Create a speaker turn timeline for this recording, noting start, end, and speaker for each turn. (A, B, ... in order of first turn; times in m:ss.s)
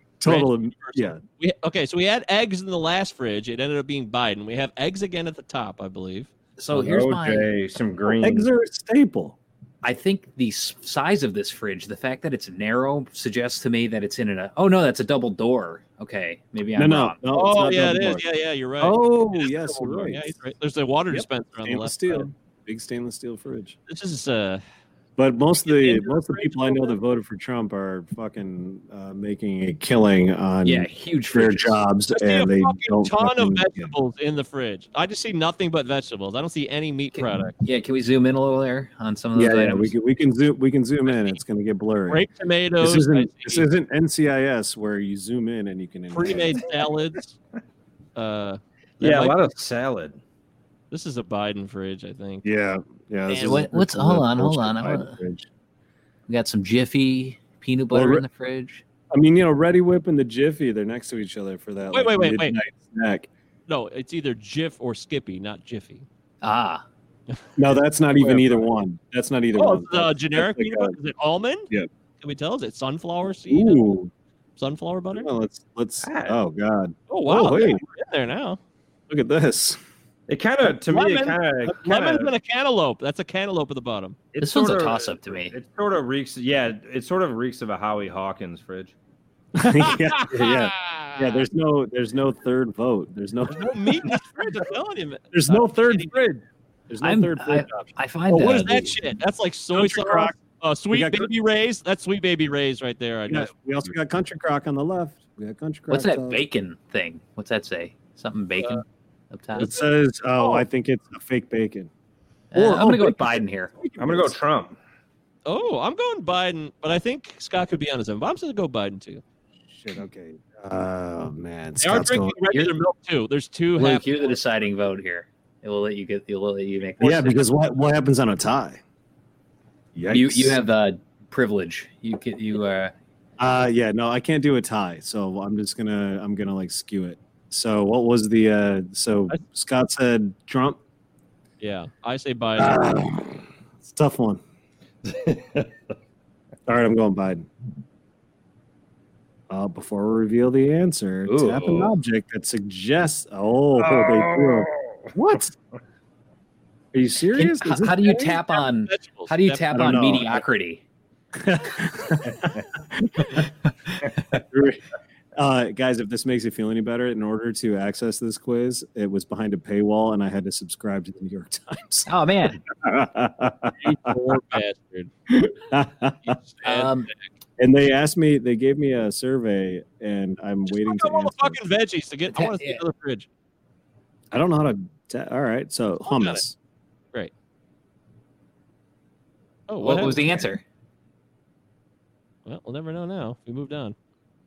0:00.2-0:01.2 A
0:00.2-0:06.3 B
0:06.6-0:07.5 C
0:06.7-0:08.5 D
0:08.0-0:09.4 A
0:09.8-0:17.2 C
0:16.8-0:18.2 A
0:17.3-0:22.3 B
0:18.8-0:20.4 A
0:21.1-0:23.8 A
0:23.9-0:24.6 B
0:25.2-0:33.9 A
0:25.7-0:27.0 B
0:30.6-0:31.8 C
0:32.1-0:37.6 B
0:37.2-0:39.9 C
0:39.4-0:42.3 A
0:42.1-0:43.6 B
0:42.8-0:46.6 A
0:46.1-0:47.4 B
0:48.2-0:49.4 B
0:49.0-0:50.2 D
0:50.9-0:52.4 B
0:52.4-0:55.5 A
0:53.3-0:55.2 C
0:56.3-0:58.8 C
0:57.9-0:58.2 A
0:59.1-1:03.3 A
1:01.9-1:02.6 B
1:03.7-1:06.1 B
1:06.4-1:06.8 C
1:07.6-1:11.0 A
1:09.6-1:11.7 B
1:12.2-1:13.9 B
1:13.5-1:14.1 A
1:14.6-1:15.3 B
1:15.1-1:17.8 A
1:16.0-1:16.4 D
1:17.1-1:18.6 B
1:19.1-1:19.8 A
1:20.3-1:22.3 D
1:20.8-1:24.9 B
1:24.3-1:29.0 D
1:24.4-1:25.6 C
1:29.6-1:34.5 A
1:29.6-1:31.4 B
1:33.5-1:36.3 B
1:35.3-1:37.9 A
1:37.0-1:39.0 C
1:38.3-1:43.9 B
1:39.7-1:40.4 A
1:40.9-1:41.3 A
1:43.3-1:46.4 A
1:45.9-1:49.7 C
1:49.6-1:50.6 B
1:49.6-1:51.9 A
1:52.5-1:53.7 C
1:52.5-1:54.4 A
1:54.0-1:54.8 D
1:55.5-1:59.2 B
1:59.7-2:02.4 A
2:01.8-2:04.3 B
2:03.8-2:07.5 C
2:07.0-2:08.8 A
2:10.0-2:10.6 A
2:10.1-2:12.9 C
2:13.4-2:20.8 A
2:21.6-2:23.0 B
2:22.6-2:24.4 A
2:25.0-2:25.7 D
2:26.7-2:27.5 A
2:29.5-2:35.6 A
2:31.2-2:31.9 C
2:33.8-2:34.9 D
2:36.9-2:38.4 A
2:37.3-2:40.8 C
2:38.5-2:40.0 B
2:39.7-2:40.5 A
2:41.4-2:43.5 A
2:44.3-2:44.8 A
2:45.4-2:52.1 A
2:52.1-2:52.6 C
2:52.7-2:54.2 A
2:53.8-2:55.1 B
2:55.3-2:56.4 A
2:56.2-2:56.9 B
2:56.6-2:57.1 C
2:57.6-3:01.6 A
3:00.7-3:03.3 B
3:02.3-3:02.8 C
3:04.3-3:06.6 A
3:06.1-3:06.4 B
3:09.7-3:10.2 B
3:09.8-3:10.6 C
3:12.5-3:14.0 B